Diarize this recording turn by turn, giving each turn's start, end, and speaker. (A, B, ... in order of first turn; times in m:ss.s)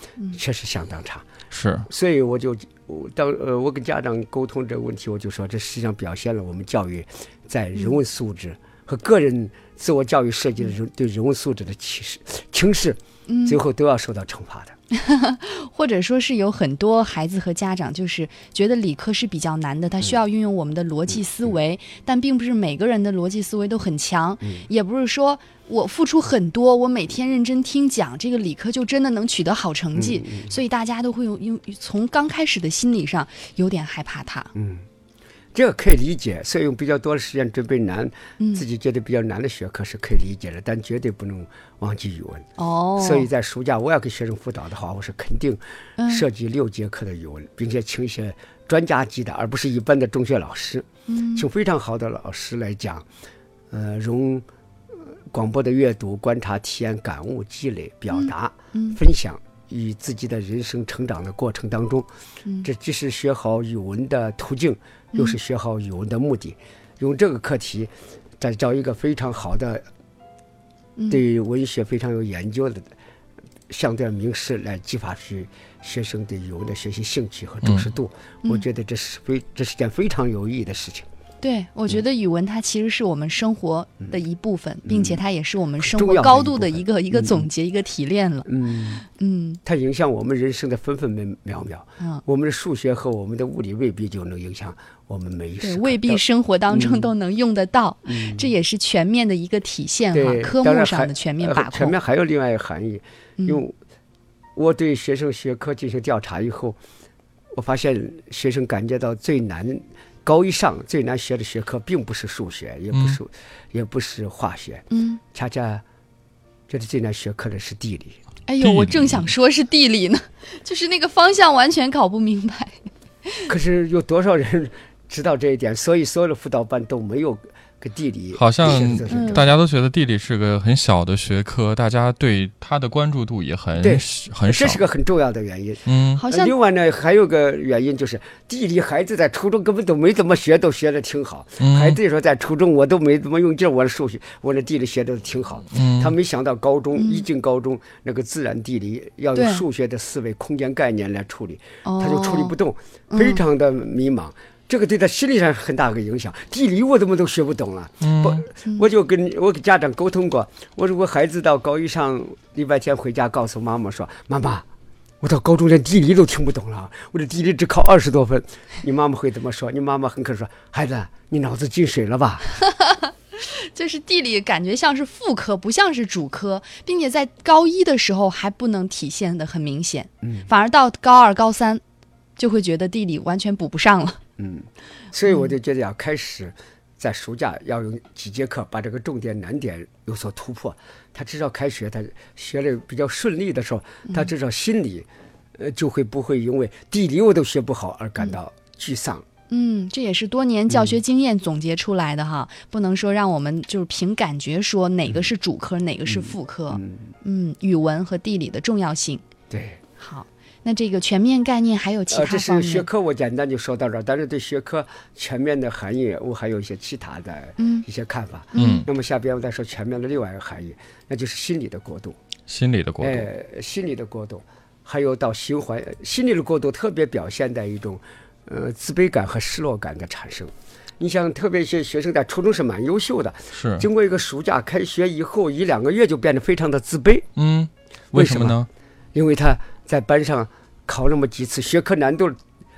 0:00.3-0:01.2 A
0:01.5-0:01.8 B
0:01.8-0:14.8 A
0:13.3-0:13.6 C
0:14.9-0:34.5 C
0:29.9-0:30.6 A
0:34.5-0:34.8 A
0:35.5-0:53.0 A
0:38.4-0:38.6 C
0:42.6-0:43.3 C
0:46.0-0:46.2 C
0:51.1-0:51.5 C
0:53.7-1:02.1 A
0:58.1-0:59.0 C
1:02.6-1:09.8 A
1:11.1-1:12.9 A
1:13.7-1:21.1 A
1:21.4-1:28.5 C
1:24.8-1:25.2 A
1:25.8-1:27.5 A
1:28.4-1:29.0 A
1:29.0-1:29.6 C
1:29.6-1:37.1 A
1:35.6-1:42.0 C
1:38.1-1:38.5 A
1:40.1-1:43.8 A
1:43.4-1:43.6 C
1:44.6-1:46.8 A
1:47.5-1:55.8 A
1:52.9-1:53.2 B
1:54.9-1:55.2 C
1:56.7-1:58.2 A
1:58.5-2:03.5 C
1:58.6-1:59.2 B
2:03.5-2:09.5 A
2:08.3-2:14.8 B
2:09.1-2:09.4 C
2:13.8-2:44.6 A
2:15.9-2:16.2 B
2:16.2-2:16.5 C
2:21.6-2:22.0 B
2:25.7-2:26.1 B
2:27.0-2:27.2 C
2:29.3-2:29.6 C
2:31.8-2:32.5 C
2:33.1-2:33.4 C
2:38.0-2:38.4 B
2:45.2-2:52.4 A
2:52.6-3:01.8 C
3:00.2-3:00.5 A
3:02.4-3:04.2 C
3:04.4-3:19.2 A
3:19.5-3:29.2 C
3:20.7-3:21.0 A
3:26.1-3:27.1 A
3:29.5-3:29.8 A
3:30.0-3:32.9 C
3:32.1-3:42.2 A
3:37.6-3:37.8 C
3:38.5-3:38.8 C
3:38.6-3:38.9 B
3:42.5-3:43.3 B
3:43.0-3:57.3 A
3:53.5-3:53.9 B
3:57.4-3:58.7 B
3:58.1-3:58.6 A
3:59.1-4:02.4 A